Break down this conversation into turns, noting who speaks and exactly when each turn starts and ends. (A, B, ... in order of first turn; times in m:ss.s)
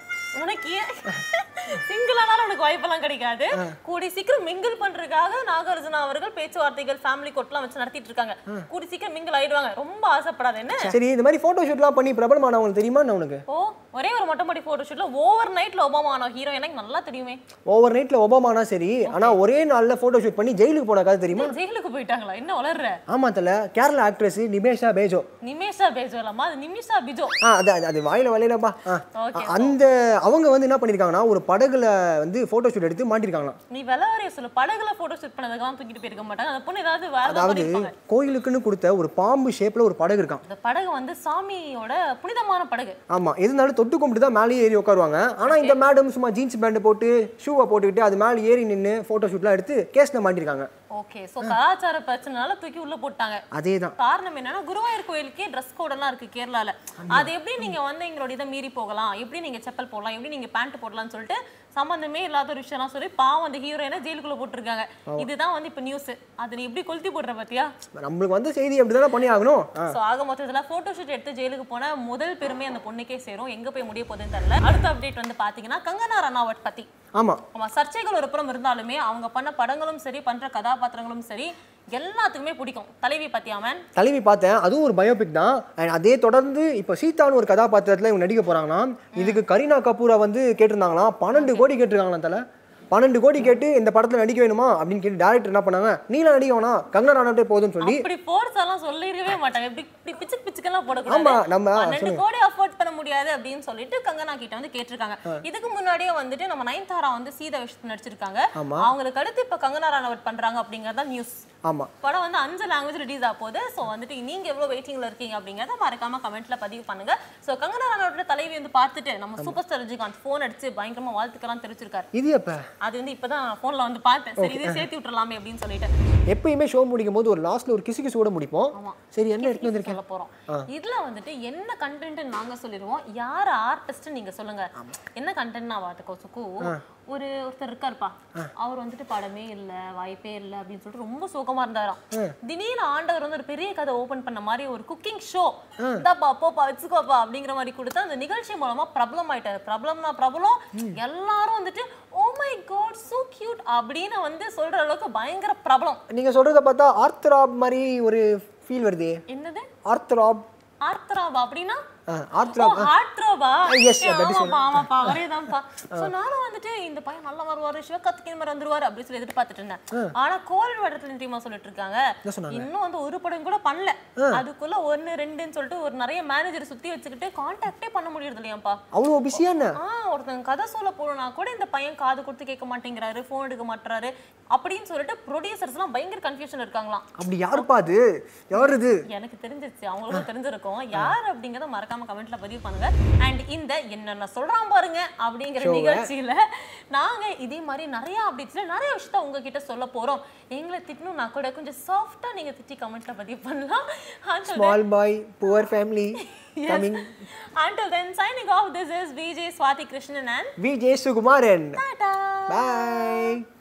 0:00.3-0:10.9 A
0:10.8-0:13.4 B
0:13.5-0:17.4 A
0:17.7-0:21.6 B
0:19.1-0:19.4 A
0:21.3-0:23.0 A
0:23.1-0:25.2 B
0:25.4-0:27.4 A
0:27.4-0:33.6 B
0:29.2-0:29.8 A
0:33.7-0:37.9 A
0:37.2-0:40.4 B
0:40.4-0:43.0 A
0:43.1-0:50.7 B
0:45.5-0:45.8 A
0:50.9-0:53.4 A
0:53.5-0:53.9 B
0:54.0-1:07.7 A
0:57.0-0:57.8 B
1:08.0-1:10.0 B
1:09.9-1:16.9 A
1:17.2-1:17.4 B
1:17.5-1:23.8 A
1:24.0-1:32.4 B
1:29.1-1:29.4 A
1:31.3-1:31.7 A
1:32.9-1:38.1 B
1:37.8-1:51.4 A
1:41.1-1:42.2 B
1:48.6-1:48.9 B
1:52.0-2:02.1 A
2:02.1-2:02.6 B
2:02.8-2:05.9 A
2:04.4-2:04.9 B
2:06.3-2:10.7 B
2:08.7-2:36.0 A
2:25.8-2:26.0 B
2:30.7-2:31.0 B
2:36.1-2:39.2 B
2:39.3-2:39.7 A
2:39.9-2:40.4 B
2:40.8-2:41.8 A
2:42.1-2:42.9 B
2:42.4-2:58.8 A
2:43.7-2:45.2 B
2:52.2-2:52.7 B
2:54.2-2:54.4 B
2:58.9-2:59.8 B
2:59.3-3:07.7 A
3:07.2-3:09.0 B
3:08.6-3:24.8 A
3:15.6-3:16.1 B
3:24.4-3:27.1 B
3:26.2-3:30.5 A
3:30.6-3:31.8 B
3:31.8-3:33.3 A
3:32.5-3:33.4 B